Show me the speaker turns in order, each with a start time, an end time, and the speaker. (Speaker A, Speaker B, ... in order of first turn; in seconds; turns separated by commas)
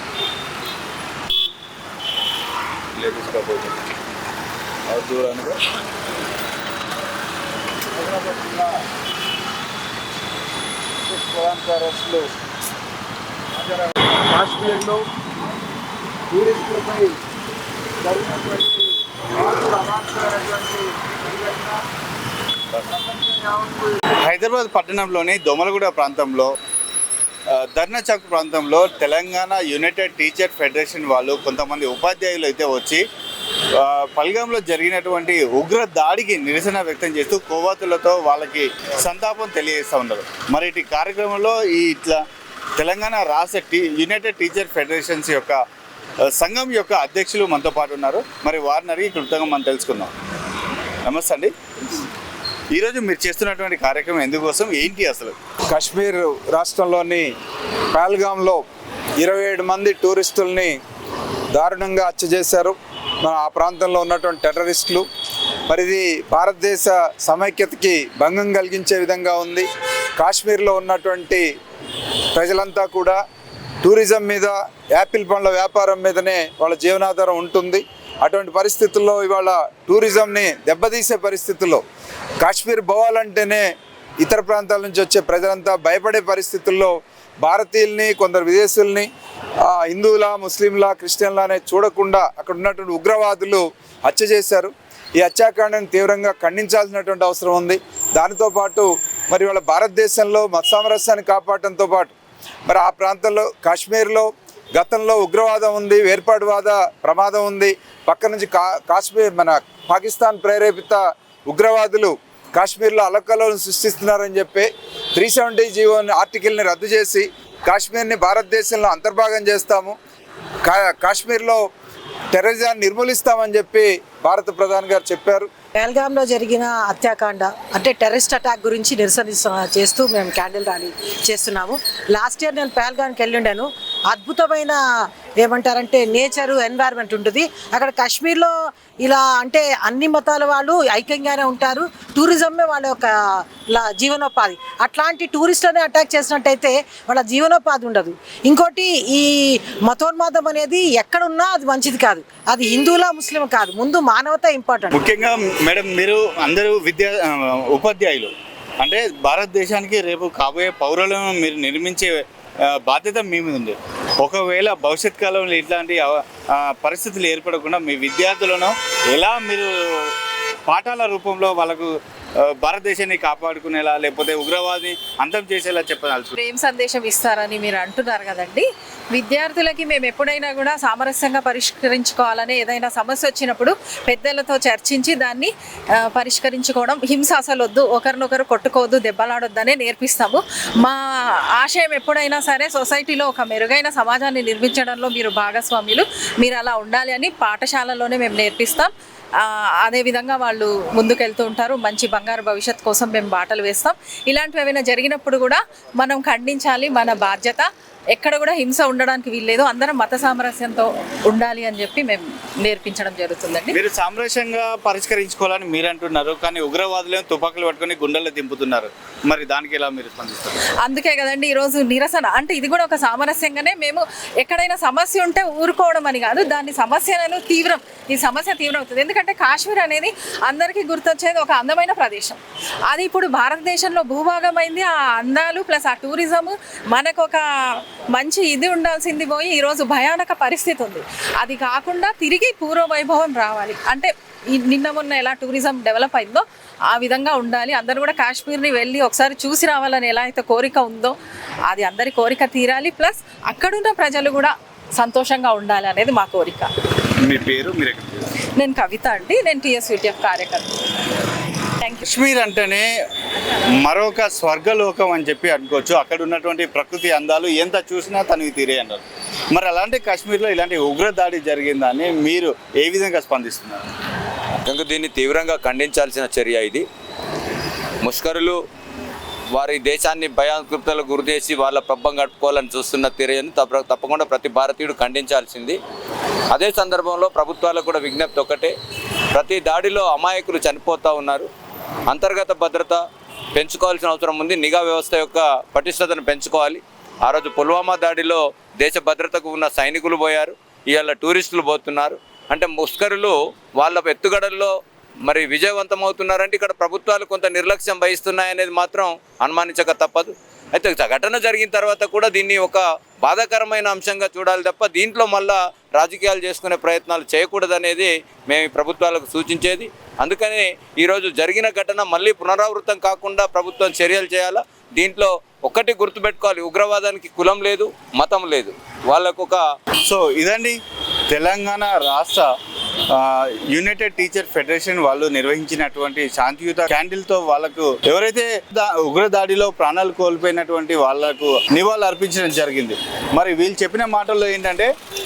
Speaker A: 3.0-3.7, Speaker A: 4.9-5.6, Speaker B: 8.0-8.7, Speaker B: 11.1-12.2, Speaker B: 13.6-15.0, Speaker B: 16.3-17.2, Speaker B: 18.0-18.9, Speaker B: 19.4-21.7, Speaker B: 23.1-23.8, Speaker C: 24.2-26.5, Speaker C: 27.5-33.0, Speaker C: 33.8-42.2, Speaker C: 42.8-45.6, Speaker C: 46.3-50.1, Speaker C: 51.0-51.5, Speaker C: 52.7-55.4, Speaker B: 55.7-57.3, Speaker B: 57.9-58.6, Speaker B: 59.2-60.8, Speaker B: 61.5-65.0, Speaker B: 65.7-69.7, Speaker B: 70.2-71.5, Speaker B: 72.3-73.2, Speaker B: 73.8-81.8, Speaker B: 82.4-83.7, Speaker B: 84.2-89.1, Speaker B: 89.7-102.1, Speaker B: 102.7-119.9, Speaker B: 120.6-121.6, Speaker B: 122.3-125.5, Speaker D: 125.8-134.8, Speaker D: 135.4-155.0, Speaker C: 154.9-176.3, Speaker E: 176.3-191.0, Speaker E: 191.5-213.8, Speaker C: 213.7-220.6, Speaker E: 220.8-251.2, Speaker E: 251.7-256.7, Speaker C: 257.2-258.3, Speaker E: 258.6-260.8, Speaker E: 261.8-262.1, Speaker C: 262.1-262.9, Speaker C: 263.8-273.9, Speaker A: 274.6-276.8, Speaker A: 278.0-278.6, Speaker A: 279.5-285.8, Speaker A: 286.5-288.7, Speaker A: 289.3-291.5, Speaker A: 292.1-293.0, Speaker A: 293.5-304.7, Speaker A: 305.2-329.6, Speaker C: 330.1-330.8, Speaker C: 331.3-332.5, Speaker C: 333.1-344.9